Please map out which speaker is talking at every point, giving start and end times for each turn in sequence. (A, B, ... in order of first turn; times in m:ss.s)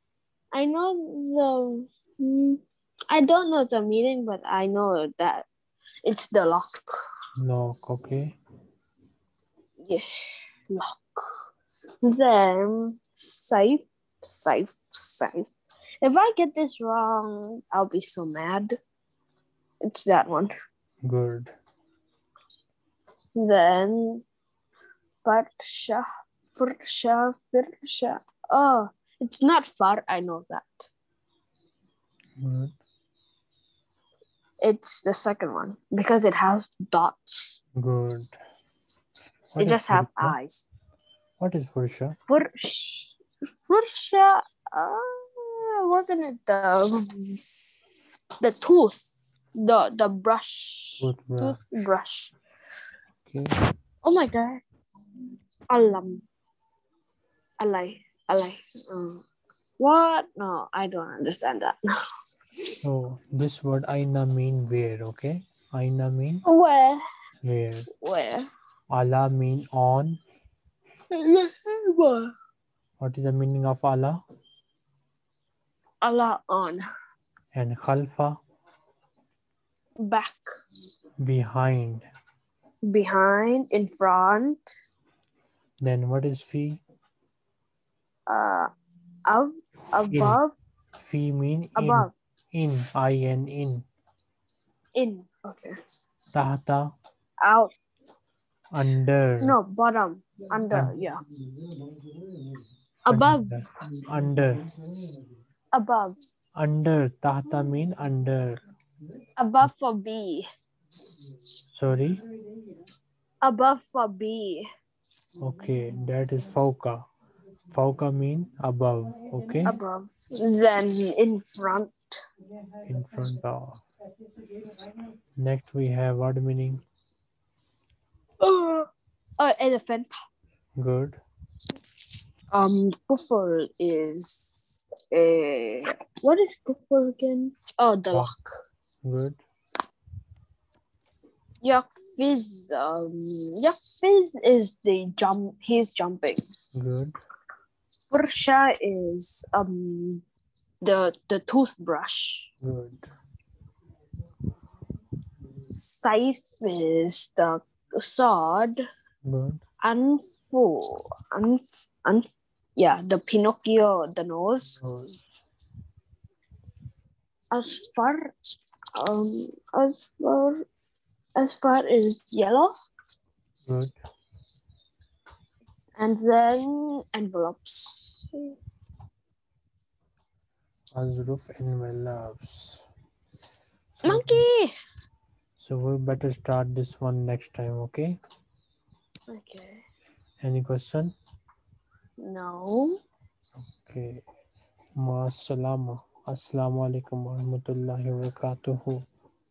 0:00.5-0:05.5 A
0:06.0-0:06.9 A
0:07.4-0:08.4 B
0:10.7-0:11.4 A
0:12.0-0:15.5 A
0:16.0-0:18.8 A
0:19.8-0:20.5 A
0:21.0-0:21.5 B
0:23.4-0:24.2 A
0:25.2-0:30.9 A
0:32.4-0:32.7 B
0:34.6-0:37.6 A
0:37.8-0:38.3 B
0:39.5-0:40.4 B
0:39.6-0:40.7 A
0:41.4-0:42.2 B
0:42.3-0:52.3 A
0:51.0-0:51.6 B
0:53.2-0:53.5 B
0:54.0-0:54.6 A
0:55.7-0:56.2 A
0:57.6-0:59.2 A
0:59.8-1:01.9 A
1:02.8-1:06.4 B
1:06.4-1:07.0 A
1:07.4-1:07.9 B
1:07.9-1:08.5 A
1:08.9-1:10.2 B
1:11.1-1:12.3 A
1:13.0-1:14.2 B
1:16.0-1:16.8 A
1:17.5-1:18.4 B
1:20.0-1:20.5 A
1:21.2-1:22.0 B
1:22.8-1:24.7 A
1:25.8-1:26.8 B
1:28.3-1:28.7 A
1:29.2-1:30.5 A
1:30.1-1:30.4 B
1:31.0-1:33.8 B
1:31.8-1:32.1 A
1:34.9-1:35.8 A
1:36.3-1:36.8 B
1:37.4-1:37.7 A
1:38.7-1:39.6 B
1:39.4-1:41.2 A
1:40.7-1:40.9 B
1:43.0-1:43.6 A
1:43.1-1:44.7 B
1:45.7-1:46.2 A
1:46.6-1:48.6 B
1:49.4-1:50.4 A
1:51.7-1:52.2 B
1:53.4-1:54.7 A
1:55.4-1:57.0 B
1:57.7-1:59.7 B
1:59.6-2:02.2 A
2:02.8-2:03.8 B
2:05.4-2:06.8 B
2:08.4-2:08.9 A
2:09.4-2:10.1 A
2:10.8-2:11.2 B
2:12.5-2:18.6 A
2:19.0-2:19.4 B
2:21.6-2:26.4 A
2:26.7-2:27.2 B
2:28.1-2:30.2 A
2:30.8-2:32.5 A
2:32.6-2:33.1 B
2:35.7-2:38.8 A
2:39.2-2:39.6 B
2:39.8-2:44.8 A
2:44.6-2:45.3 B
2:47.5-2:50.6 A
2:51.4-2:52.7 A
2:53.6-2:53.9 B
2:56.0-2:58.6 A
3:00.9-3:02.8 B
3:04.0-3:04.4 B
3:04.0-3:04.7 A
3:05.6-3:08.2 B
3:09.3-3:09.8 A
3:10.4-3:11.1 B
3:12.2-3:13.0 A
3:13.7-3:14.2 B
3:15.0-3:19.0 B